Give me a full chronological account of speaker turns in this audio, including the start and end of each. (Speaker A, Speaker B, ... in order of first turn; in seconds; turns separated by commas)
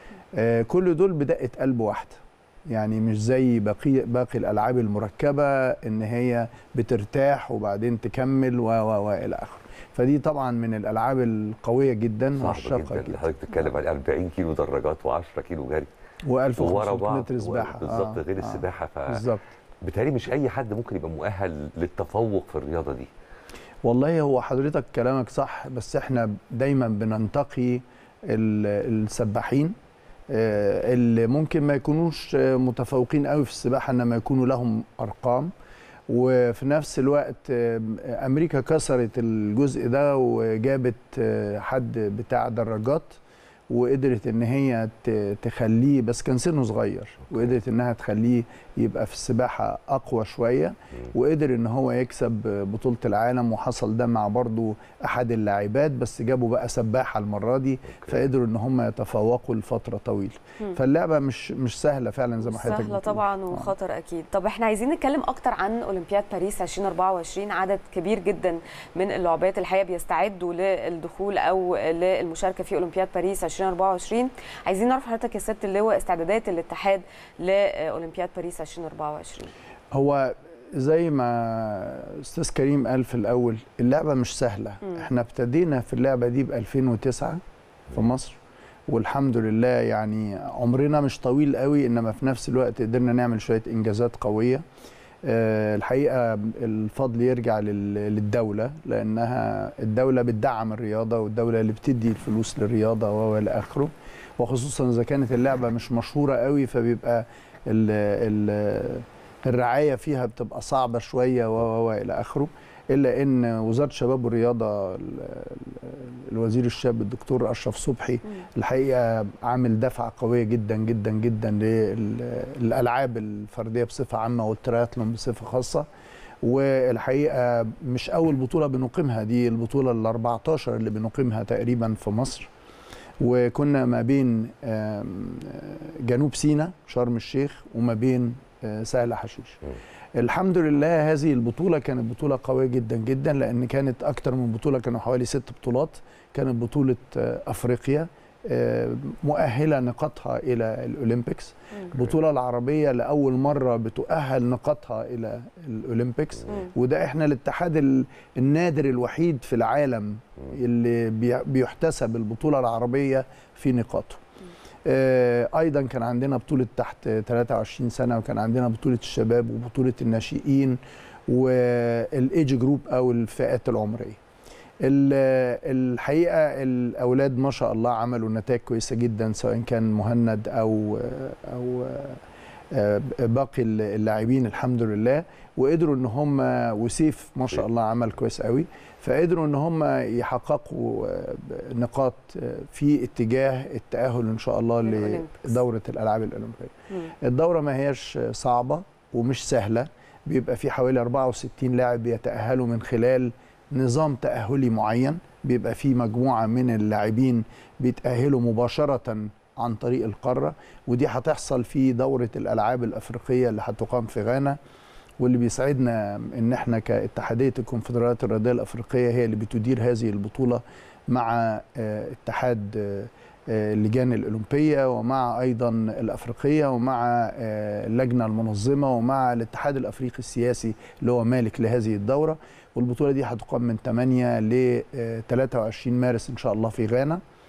Speaker A: 0.3-13.3, Speaker B: 12.4-15.9, Speaker A: 16.3-19.5, Speaker B: 16.6-19.3, Speaker B: 19.8-23.1, Speaker A: 23.8-29.8, Speaker A: 30.3-35.5, Speaker A: 36.1-63.7, Speaker C: 62.4-79.5, Speaker A: 79.9-88.4, Speaker A: 88.9-94.6, Speaker A: 95.2-125.9, Speaker A: 126.4-132.5, Speaker A: 133.2-139.6, Speaker A: 140.2-164.2, Speaker A: 164.9-174.2, Speaker A: 174.8-182.2, Speaker A: 182.7-214.6, Speaker C: 194.8-195.6, Speaker A: 215.2-237.2